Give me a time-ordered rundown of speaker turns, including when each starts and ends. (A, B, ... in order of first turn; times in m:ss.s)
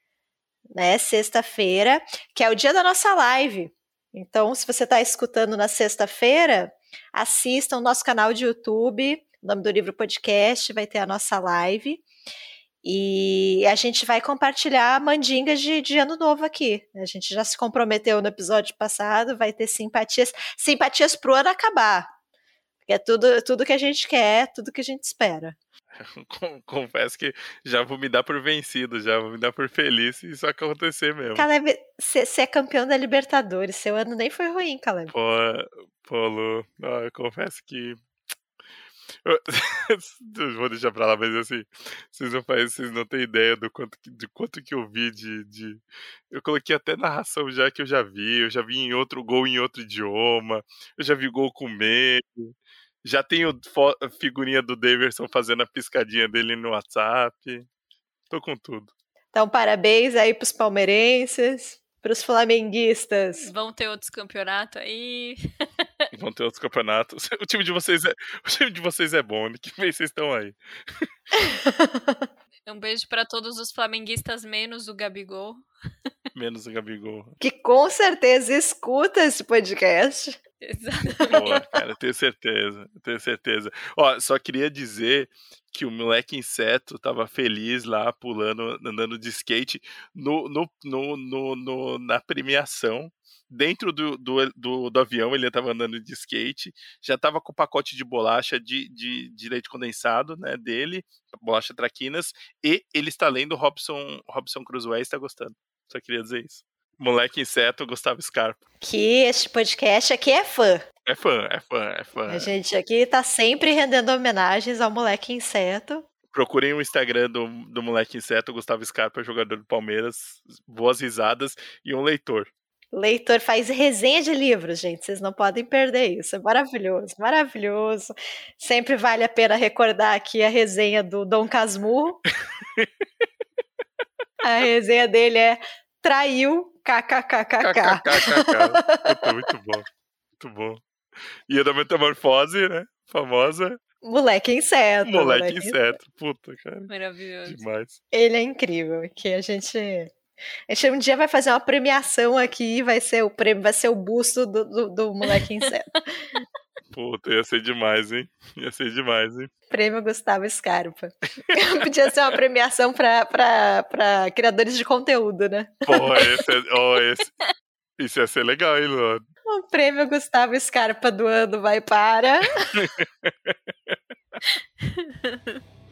0:00.7-0:12.0 A
0:12.8-0:22.1 A
0:22.8-0:25.6 A
0:26.0-0:31.5 B
0:31.3-0:35.1 A
0:35.1-0:38.0 B
0:39.2-0:57.7 B
0:58.3-0:58.9 B
0:59.3-1:03.5 A
1:03.4-1:05.4 C
1:06.1-1:11.0 B
1:11.4-1:12.3 A
1:12.7-1:15.6 C
1:16.3-1:17.3 B
1:17.4-1:20.4 A
1:20.6-1:21.6 C
1:21.3-1:48.6 B
1:48.8-1:50.8 A
1:51.0-1:52.5 B
1:52.3-1:56.0 A
1:56.3-2:02.5 B
2:02.9-2:12.2 A
2:12.6-2:12.9 B
2:14.4-2:19.3 A
2:17.6-2:19.9 B
2:20.4-2:20.8 B
2:21.5-2:23.8 B
2:24.0-2:25.8 A
2:25.0-2:26.9 B
2:26.9-2:27.6 C
2:27.4-2:28.0 B
2:28.1-2:30.1 A
2:30.7-2:35.9 A
2:36.9-2:39.5 B
2:39.7-2:46.4 A
2:45.9-2:47.3 B
2:48.0-2:49.2 B
2:49.5-2:52.6 A
2:52.6-2:54.0 B
2:54.4-2:55.6 C